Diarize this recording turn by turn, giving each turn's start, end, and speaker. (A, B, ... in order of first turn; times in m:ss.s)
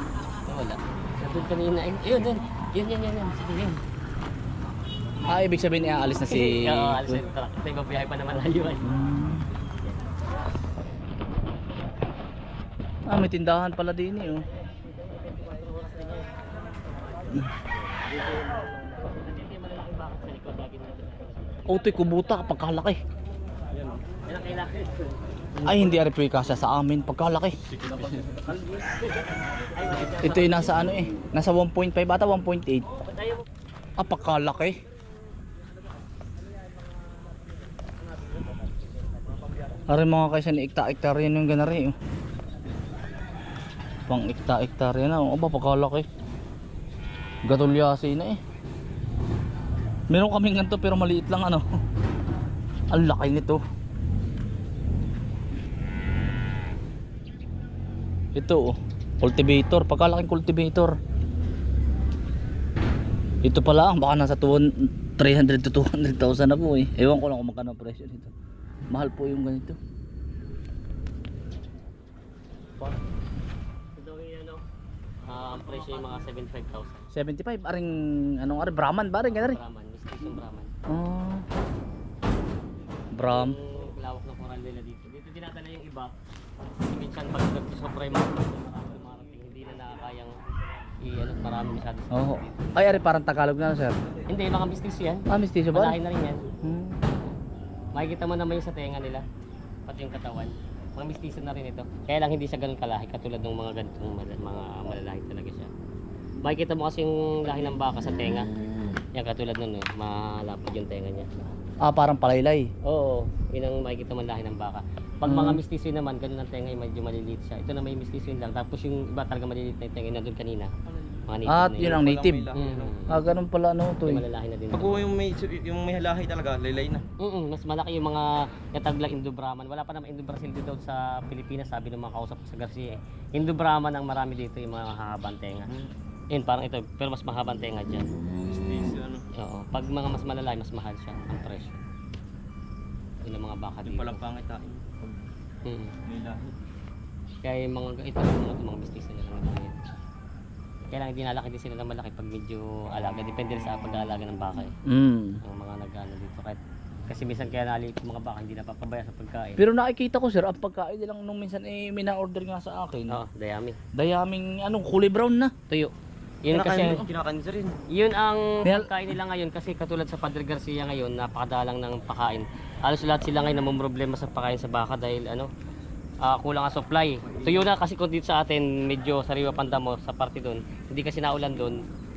0:00.5-0:03.8 A
0:05.2-0:07.2 B
0:06.3-0:09.0 A
0:08.8-0:09.4 B
0:13.1-0:14.4 B
0:15.2-0:18.5 A
0:19.0-0:21.7 A
0:21.7-0:23.0 B
0:23.8-0:25.9 A
0:25.6-0:27.6 B
0:29.8-0:30.8 A
0:30.2-0:32.9 B
0:33.0-0:33.4 A
0:34.0-0:34.8 B
0:38.2-0:39.4 A
0:39.9-0:42.0 B
0:44.1-0:46.1 B
0:47.4-0:48.4 B
0:50.1-0:51.6 B
0:52.9-0:53.6 B
0:58.4-1:01.0 B
1:03.4-1:08.3 B
1:08.9-1:09.8 B
1:14.0-1:14.6 A
1:15.2-1:17.0 A
1:17.1-1:19.6 B
1:19.2-1:20.7 A
1:20.9-1:21.4 B
1:23.1-1:23.6 B
1:23.3-1:26.1 A
1:26.9-1:30.4 A
1:31.0-1:33.0 A
1:32.1-1:34.0 B
1:34.3-1:36.4 A
1:35.3-1:36.0 B
1:36.6-1:37.0 B
1:37.9-1:39.2 A
1:39.9-1:45.7 A
1:46.4-1:48.5 A
1:49.2-1:51.3 A
1:51.8-1:52.7 B
1:52.8-2:00.7 A
1:55.3-1:55.6 B
2:01.3-2:02.0 A
2:01.5-2:02.5 B
2:01.8-2:03.0 C
2:02.6-2:03.2 A
2:03.1-2:04.2 B
2:04.1-2:05.1 A
2:04.7-2:07.0 C
2:07.2-2:15.7 A
2:16.3-2:18.1 A
2:18.5-2:19.2 C
2:19.4-2:21.8 A
2:23.2-2:24.2 A
2:23.8-2:25.0 C
2:25.6-2:25.9 A
2:26.1-2:26.5 C
2:27.4-2:29.8 A
2:30.9-2:34.7 A
2:34.9-2:35.4 B
2:35.4-2:39.6 A
2:39.6-2:43.2 B
2:43.1-2:43.8 A
2:44.0-2:45.5 B
2:46.4-2:47.0 A
2:46.5-2:47.8 C
2:47.9-2:55.5 A
2:48.6-2:49.0 B
2:56.2-3:01.8 A
2:57.3-2:57.6 C